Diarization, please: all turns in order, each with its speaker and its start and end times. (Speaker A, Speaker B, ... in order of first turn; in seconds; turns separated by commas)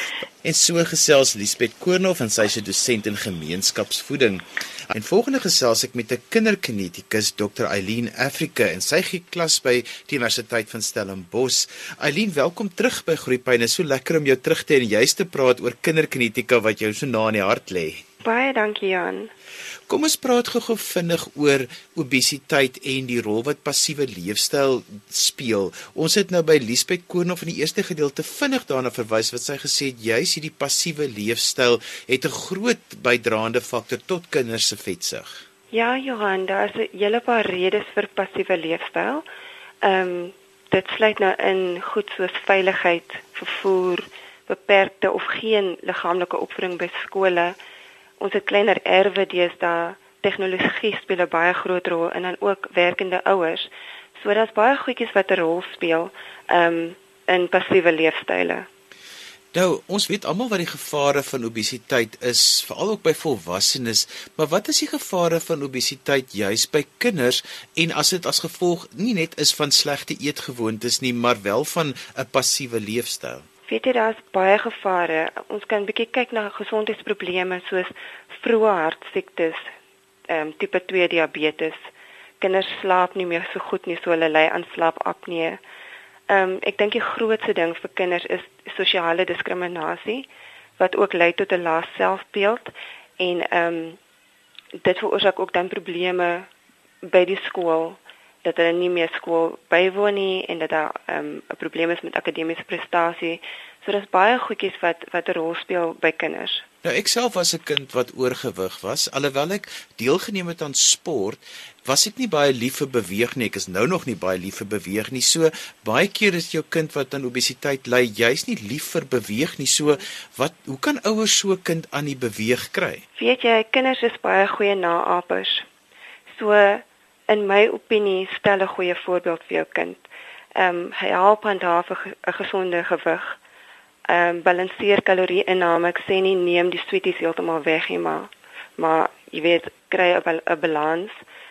Speaker A: 0.4-18.0, Speaker B: 18.2-19.3, Speaker A: 19.9-35.4, Speaker B: 35.7-39.2, Speaker B: 39.8-47.5, Speaker B: 48.2-58.7, Speaker A: 59.5-73.4, Speaker B: 73.7-79.7, Speaker B: 80.3-81.8, Speaker B: 82.4-85.6, Speaker B: 86.3-90.3, Speaker B: 90.8-94.0, Speaker B: 94.8-96.5, Speaker B: 97.0-106.6, Speaker A: 106.8-123.0, Speaker B: 123.2-125.7, Speaker B: 126.3-130.0, Speaker B: 130.6-133.4, Speaker B: 134.1-141.1